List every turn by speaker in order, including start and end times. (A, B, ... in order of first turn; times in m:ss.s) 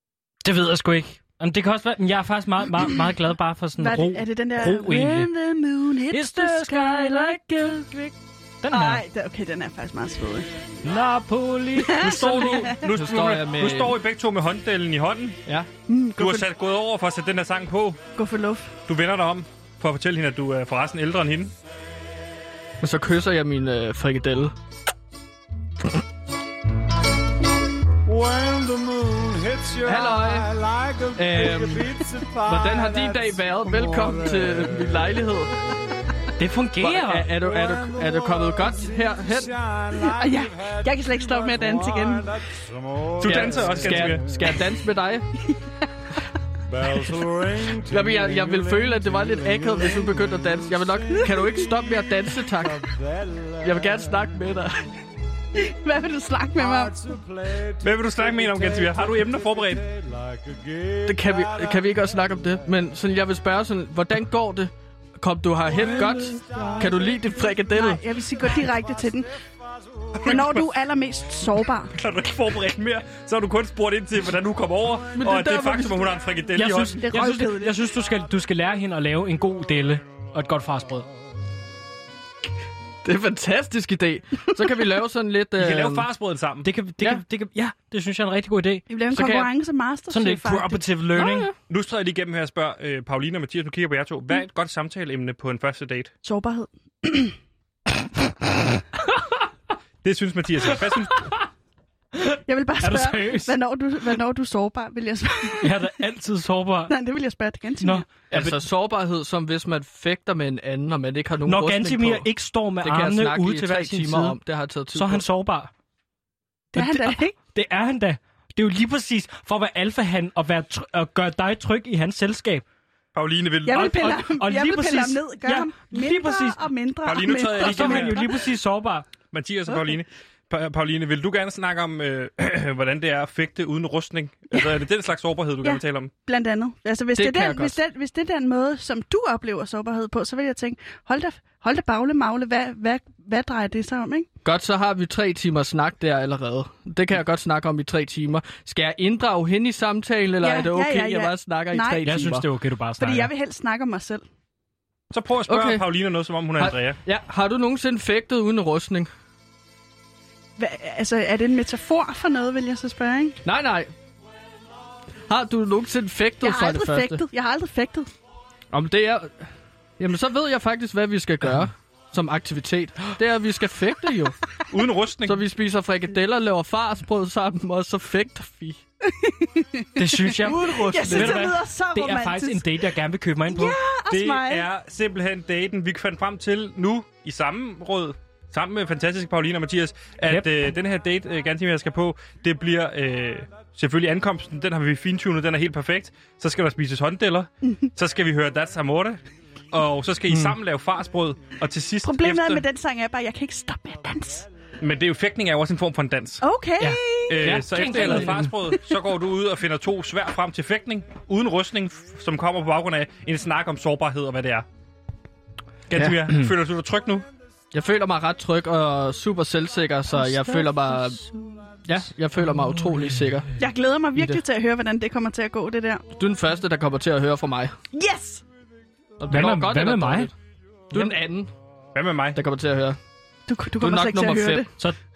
0:00.4-0:05.3 A
0:03.8-0:08.1 B
0:06.1-0:08.1 A
0:08.6-0:09.0 A
0:08.7-0:10.5 B
0:10.8-0:12.7 A
0:11.8-0:12.8 B
0:12.0-0:15.4 C
0:12.8-0:14.0 D
0:15.9-0:16.5 B
0:16.2-0:18.0 C
0:18.2-0:18.8 B
0:18.9-0:21.6 C
0:22.8-0:24.6 D
0:28.0-0:35.0 E
0:29.8-0:30.6 D
0:31.2-0:35.5 D
0:36.4-0:37.3 A
0:36.8-0:39.6 D
0:37.3-0:44.3 E
0:40.1-0:42.4 B
0:43.2-0:44.3 C
0:43.2-0:45.3 D
0:45.4-0:45.9 B
0:46.7-0:51.7 E
0:47.8-0:52.9 D
0:51.2-0:51.5 B
0:52.6-0:54.2 E
0:53.6-0:54.9 D
0:55.5-0:57.0 B
0:56.9-1:01.9 E
0:57.8-0:59.8 C
1:01.0-1:08.0 D
1:06.0-1:06.8 B
1:06.4-1:06.9 E
1:07.7-1:09.3 B
1:10.2-1:10.7 C
1:10.2-1:11.9 B
1:11.9-1:17.0 C
1:15.2-1:16.2 D
1:16.6-1:21.1 A
1:17.0-1:17.8 B
1:23.0-1:26.1 D
1:25.6-1:26.7 C
1:26.6-1:29.4 A
1:28.9-1:30.8 B
1:29.1-1:29.4 D
1:30.1-1:31.5 A
1:31.2-1:31.5 D
1:31.7-1:36.1 C
1:36.2-1:37.4 B
1:40.0-1:41.3 C
1:40.7-1:41.4 A
1:42.1-1:43.5 A
1:42.5-1:45.9 B
1:45.6-1:46.9 A
1:46.9-1:48.0 B
1:47.8-1:48.6 A
1:48.3-1:52.3 D
1:51.5-1:54.4 A
1:52.8-1:55.2 D
1:54.9-1:55.7 A
1:56.7-1:57.4 B
1:56.8-2:02.6 A
2:03.2-2:03.8 C
2:03.7-2:08.5 B
2:03.7-2:06.6 A
2:07.0-2:08.2 C
2:07.2-2:09.1 A
2:09.3-2:16.1 C
2:15.6-2:24.3 B
2:17.2-2:17.8 D
2:24.4-2:32.5 D
2:30.4-2:32.1 B
2:32.0-2:33.3 A
2:33.0-2:34.2 B
2:35.1-2:37.0 C
2:35.5-2:35.9 D
2:36.6-2:39.1 D
2:40.6-2:43.4 B
2:43.4-2:43.9 D
2:45.3-2:47.2 D
2:46.4-2:48.1 B
2:48.7-2:54.4 D
2:54.7-2:55.4 C
2:55.2-2:58.8 D
2:59.0-3:02.9 B
3:00.0-3:03.8 A
3:00.4-3:01.5 D
3:03.5-3:04.7 B
3:04.1-3:22.6 C
3:20.3-3:20.6 D
3:22.0-3:24.5 B
3:24.8-3:26.4 C
3:26.4-3:28.3 B
3:26.8-3:28.5 A
3:27.3-3:34.7 C
3:27.4-3:28.4 D
3:35.9-3:37.3 C
3:36.0-3:36.2 D
3:37.7-3:41.2 D
3:40.2-3:41.7 B
3:41.8-3:43.5 D
3:43.6-3:46.0 B
3:44.2-3:44.4 D
3:46.2-3:47.8 D
3:47.9-3:48.4 B
3:49.2-3:50.3 D
3:49.3-3:50.3 A
3:50.9-3:51.5 D
3:51.9-3:52.4 C
3:52.4-3:53.0 D
3:53.5-3:54.7 B
3:53.8-3:54.7 D